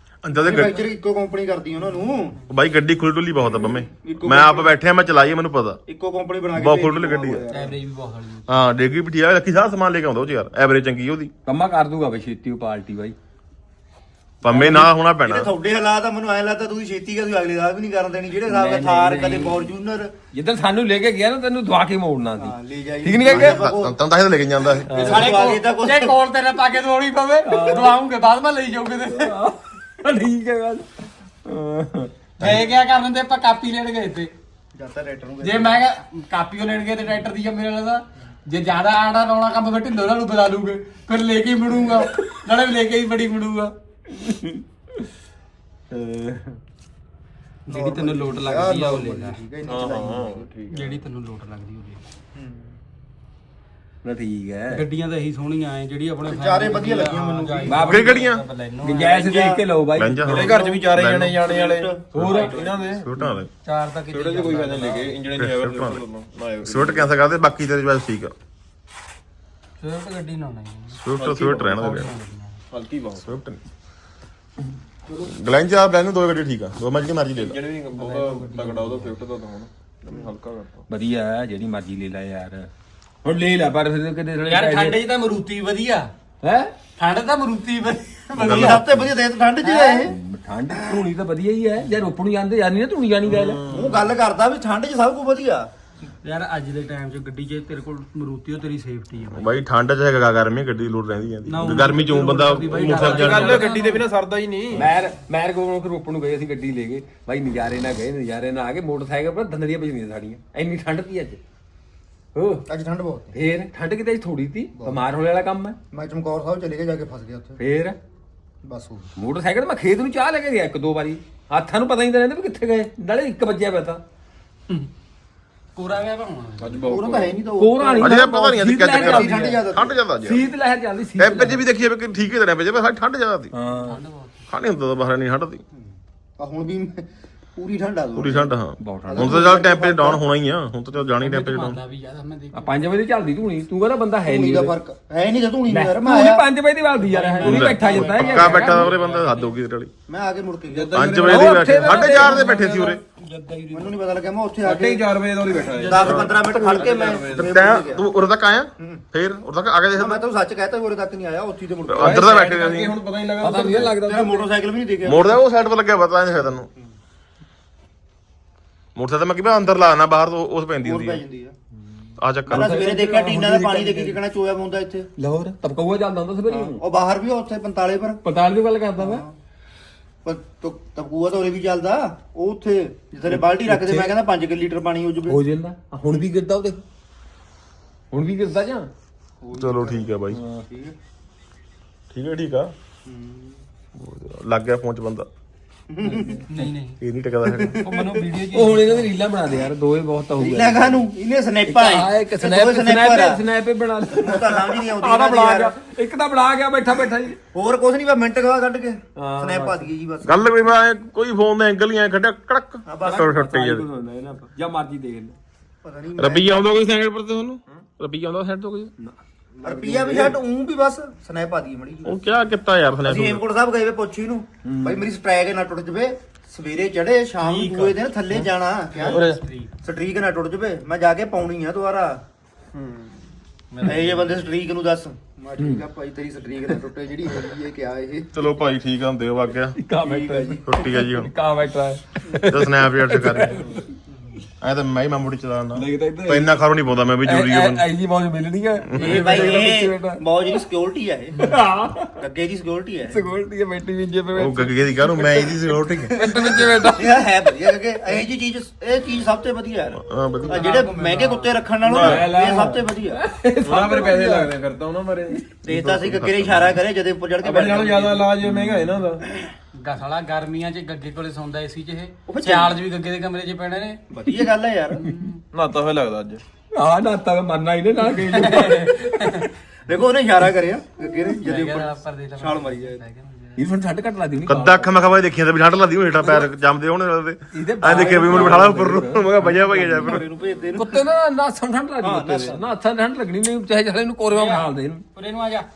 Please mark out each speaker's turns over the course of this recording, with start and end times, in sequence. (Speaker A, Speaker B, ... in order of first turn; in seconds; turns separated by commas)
Speaker A: 0.2-0.8, Speaker B: 0.3-2.4, Speaker A: 2.5-5.8, Speaker B: 3.5-4.7, Speaker B: 5.9-7.7, Speaker A: 6.5-7.5, Speaker C: 7.5-8.6, Speaker A: 8.5-11.3, Speaker D: 11.4-13.2, Speaker A: 14.4-15.5, Speaker B: 14.4-20.1, Speaker C: 18.4-19.7, Speaker D: 20.3-23.6, Speaker B: 22.4-24.0, Speaker A: 23.3-24.9, Speaker B: 24.6-26.2, Speaker D: 24.9-25.5, Speaker C: 24.9-29.4, Speaker D: 27.4-27.9, Speaker D: 29.1-32.1, Speaker C: 32.4-34.3, Speaker A: 32.4-32.6, Speaker B: 34.7-35.8, Speaker C: 35.4-43.7, Speaker D: 44.1-45.0, Speaker D: 45.9-46.6, Speaker C: 47.6-49.4, Speaker B: 47.7-50.5, Speaker E: 49.6-51.0, Speaker C: 50.7-52.0, Speaker B: 52.3-52.7, Speaker D: 54.0-54.8, Speaker C: 54.7-59.3, Speaker B: 56.3-58.0, Speaker D: 57.7-58.0, Speaker A: 57.8-58.4, Speaker D: 58.8-60.2, Speaker B: 59.1-59.6, Speaker A: 59.9-61.4, Speaker E: 60.3-63.1, Speaker B: 60.3-62.3, Speaker D: 62.1-62.6, Speaker C: 62.2-62.6, Speaker A: 62.9-63.5, Speaker C: 63.6-65.1, Speaker E: 64.1-67.1, Speaker A: 65.3-66.0, Speaker A: 66.6-68.3, Speaker C: 69.8-71.0, Speaker A: 71.0-72.1, Speaker E: 71.2-71.9, Speaker C: 71.5-72.6, Speaker E: 72.7-73.3, Speaker A: 73.2-73.6, Speaker A: 75.2-77.6, Speaker E: 77.3-80.8, Speaker C: 77.9-79.2, Speaker D: 80.9-82.7, Speaker D: 83.2-85.0, Speaker C: 84.5-86.1, Speaker D: 86.4-86.7, Speaker C: 87.0-88.8, Speaker A: 88.3-89.1, Speaker B: 88.4-90.2, Speaker C: 89.6-90.0, Speaker D: 90.0-93.6, Speaker E: 93.2-94.1, Speaker B: 93.7-95.7, Speaker C: 96.2-99.5, Speaker A: 99.3-103.7, Speaker C: 101.4-104.0, Speaker E: 102.8-104.9, Speaker D: 104.7-111.4, Speaker D: 112.3-112.7, Speaker B: 112.7-113.3, Speaker D: 113.3-115.8, Speaker B: 114.8-115.0, Speaker B: 115.9-117.6, Speaker D: 117.6-118.0, Speaker B: 118.6-119.1, Speaker D: 119.2-124.0, Speaker C: 125.7-127.0, Speaker E: 126.6-127.4, Speaker B: 126.9-128.3, Speaker D: 127.5-129.6, Speaker A: 128.0-130.4, Speaker B: 128.9-130.0, Speaker D: 130.2-131.6, Speaker A: 131.2-133.5, Speaker D: 133.5-134.0, Speaker C: 133.8-134.4, Speaker A: 134.5-135.6, Speaker B: 135.7-138.5, Speaker A: 138.1-141.8, Speaker D: 138.8-139.4, Speaker B: 139.1-140.2, Speaker C: 141.1-142.7, Speaker D: 142.5-144.8, Speaker B: 144.2-146.4, Speaker D: 145.7-148.9, Speaker C: 147.0-149.5, Speaker A: 147.4-149.9, Speaker B: 150.1-151.4, Speaker E: 150.7-152.1, Speaker A: 150.9-153.0, Speaker D: 151.3-152.9, Speaker C: 152.1-154.0, Speaker B: 153.7-155.1, Speaker E: 154.6-157.7, Speaker C: 155.7-156.3, Speaker B: 155.8-158.1, Speaker A: 156.0-160.2, Speaker B: 158.8-159.0, Speaker B: 159.9-162.4, Speaker A: 161.8-163.0, Speaker E: 162.0-163.9, Speaker D: 163.4-164.5, Speaker B: 163.8-165.4, Speaker A: 165.0-166.7, Speaker A: 168.9-171.2, Speaker B: 170.8-171.5, Speaker A: 172.2-172.8, Speaker D: 172.5-174.2, Speaker B: 172.5-175.1, Speaker D: 175.2-176.8, Speaker B: 176.5-178.2, Speaker D: 178.2-179.2, Speaker B: 179.0-179.3, Speaker B: 180.2-185.4, Speaker D: 183.2-184.1, Speaker D: 185.3-186.8, Speaker D: 188.1-188.9, Speaker B: 189.4-190.9, Speaker A: 189.5-190.4, Speaker D: 190.3-190.6, Speaker A: 192.1-192.7, Speaker B: 193.1-193.6, Speaker A: 193.9-195.3, Speaker B: 195.9-196.4, Speaker D: 196.0-196.7, Speaker C: 196.5-197.0, Speaker A: 197.0-197.8, Speaker B: 197.4-197.8, Speaker C: 197.7-199.1, Speaker D: 198.3-201.1, Speaker B: 200.4-203.4, Speaker D: 201.7-207.4, Speaker B: 204.1-205.8, Speaker B: 207.5-210.6, Speaker D: 209.2-209.9, Speaker A: 210.2-213.8, Speaker B: 212.8-213.4, Speaker D: 213.0-215.3, Speaker B: 215.8-216.7, Speaker A: 216.2-218.9, Speaker E: 219.6-220.1, Speaker B: 219.6-222.2, Speaker D: 219.8-220.4, Speaker A: 222.1-223.4, Speaker B: 223.0-229.2, Speaker D: 224.6-225.1, Speaker C: 227.4-228.0, Speaker C: 228.9-229.7, Speaker D: 229.0-229.4, Speaker B: 229.8-232.2, Speaker E: 232.7-233.3, Speaker C: 233.7-234.2, Speaker B: 233.8-238.3, Speaker D: 235.6-235.8, Speaker A: 238.3-239.8, Speaker D: 239.8-243.9, Speaker B: 240.0-240.6, Speaker A: 240.7-241.3, Speaker A: 242.4-243.7, Speaker A: 244.6-247.8, Speaker D: 245.7-246.5, Speaker D: 247.2-250.6, Speaker A: 248.9-249.3, Speaker B: 248.9-251.6, Speaker D: 251.4-252.2, Speaker B: 252.2-253.2, Speaker D: 253.1-257.2, Speaker A: 254.3-256.3, Speaker B: 256.1-263.2, Speaker A: 260.0-260.7, Speaker C: 260.4-261.6, Speaker A: 261.8-262.3, Speaker D: 261.9-264.5, Speaker E: 263.6-265.4, Speaker B: 265.6-268.3, Speaker A: 265.6-266.8, Speaker E: 267.4-269.3, Speaker D: 268.4-268.9, Speaker C: 269.8-274.0, Speaker B: 272.3-272.7, Speaker B: 274.1-275.0, Speaker C: 274.9-275.4, Speaker D: 275.0-275.3, Speaker E: 275.5-276.4, Speaker D: 276.7-279.5, Speaker C: 278.1-279.5, Speaker B: 279.9-283.0, Speaker C: 281.4-283.6, Speaker D: 283.6-284.9, Speaker A: 284.5-290.2, Speaker D: 286.2-286.5, Speaker D: 287.5-290.2, Speaker B: 287.9-288.7, Speaker B: 289.4-291.1, Speaker E: 290.4-290.8, Speaker D: 290.8-295.0, Speaker B: 292.0-292.6, Speaker C: 294.3-295.7